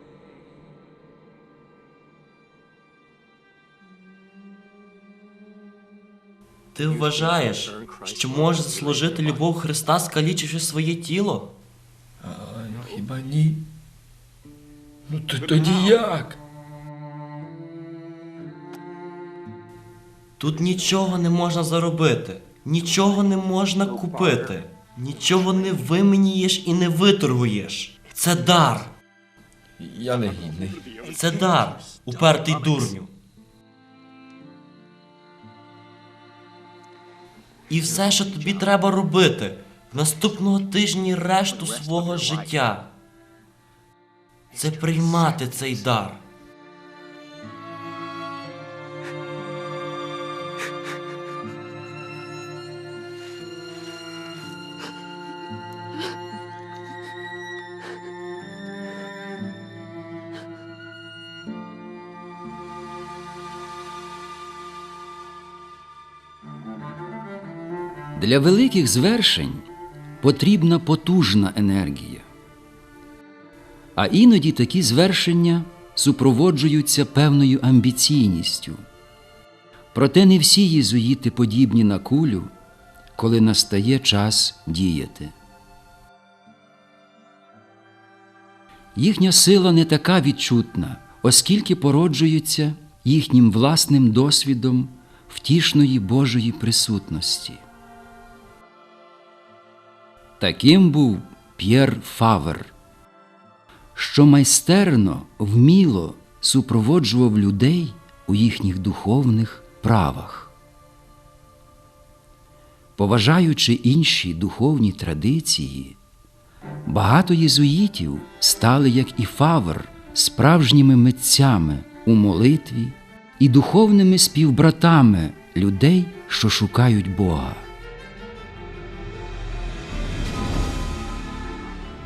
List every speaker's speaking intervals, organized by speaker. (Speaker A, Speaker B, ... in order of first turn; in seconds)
Speaker A: 6.7-11.5, 20.4-28.9, 31.1-33.1, 37.7-42.9, 44.5-46.2
Speaker B: 12.2-13.7, 15.1-16.4, 29.8-30.9
Speaker C: 68.1-69.7, 70.2-72.3, 74.0-78.8, 79.9-82.5, 83.2-85.3, 88.9-97.6, 100.4-102.7, 103.9-110.5, 113.0-116.0, 116.8-127.7